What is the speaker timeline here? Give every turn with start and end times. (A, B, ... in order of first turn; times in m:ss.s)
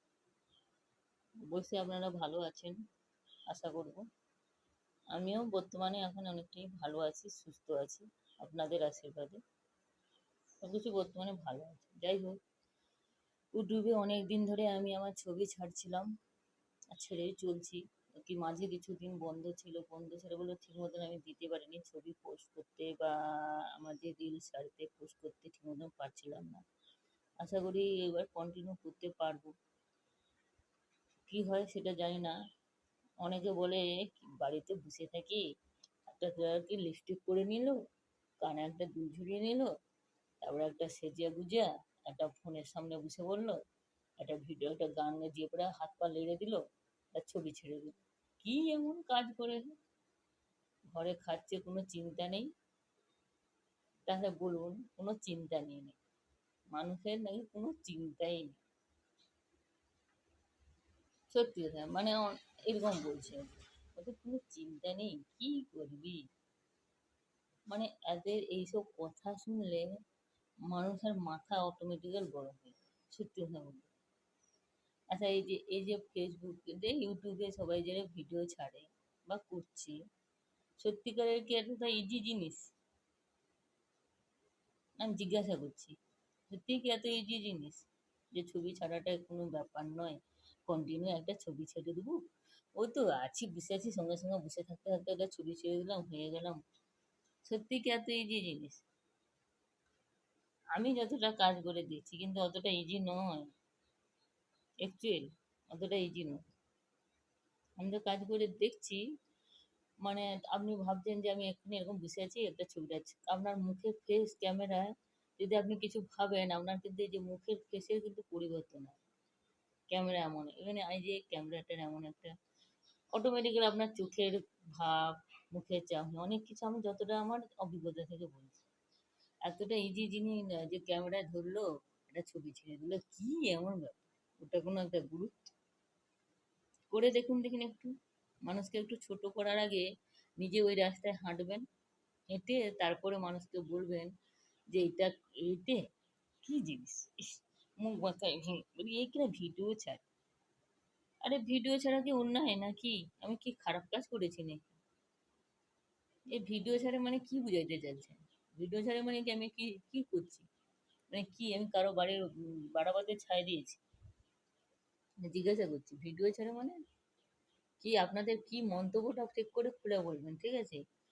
0:01.5-0:02.8 A
0:03.5-0:04.0 A
0:05.1-0:09.4 A
0:10.6-0:12.4 A
0:13.6-0:16.1 A
0:16.9-0:26.6 A
0:27.4-0:29.5 A
0:31.3-0:32.4 A
0:33.2-0:35.4 A
0:36.1-0:37.8 A
0:38.4-0:39.7 A
0:40.4-0:43.6 A
0:44.2-0:46.6 A
0:47.2-0:49.7 A
0:50.9-0:52.5 A
0:54.1-0:56.0 A
0:56.7-0:58.6 A
1:01.3-1:06.2 A
1:07.7-1:09.9 A
1:10.7-1:13.9 A
1:15.1-1:20.0 A
1:20.8-1:22.6 A
1:25.0-1:26.0 A
1:26.5-1:32.2 A
1:32.8-1:36.6 A
1:37.4-1:38.8 A
1:40.8-1:43.5 A
1:44.8-1:46.4 A
1:47.8-1:49.0 A
1:50.0-1:59.0 A
1:59.9-2:02.3 A
2:03.1-2:08.6 A
2:09.5-2:15.5 A
2:16.9-2:17.9 A
2:18.5-2:19.8 A
2:20.4-2:21.6 A
2:22.3-2:24.1 A
2:24.7-2:25.8 A
2:26.4-2:30.0 A
2:31.2-2:34.8 A
2:36.3-2:40.5 A
2:41.1-2:43.8 A
2:45.2-2:46.8 A
2:47.8-2:50.8 A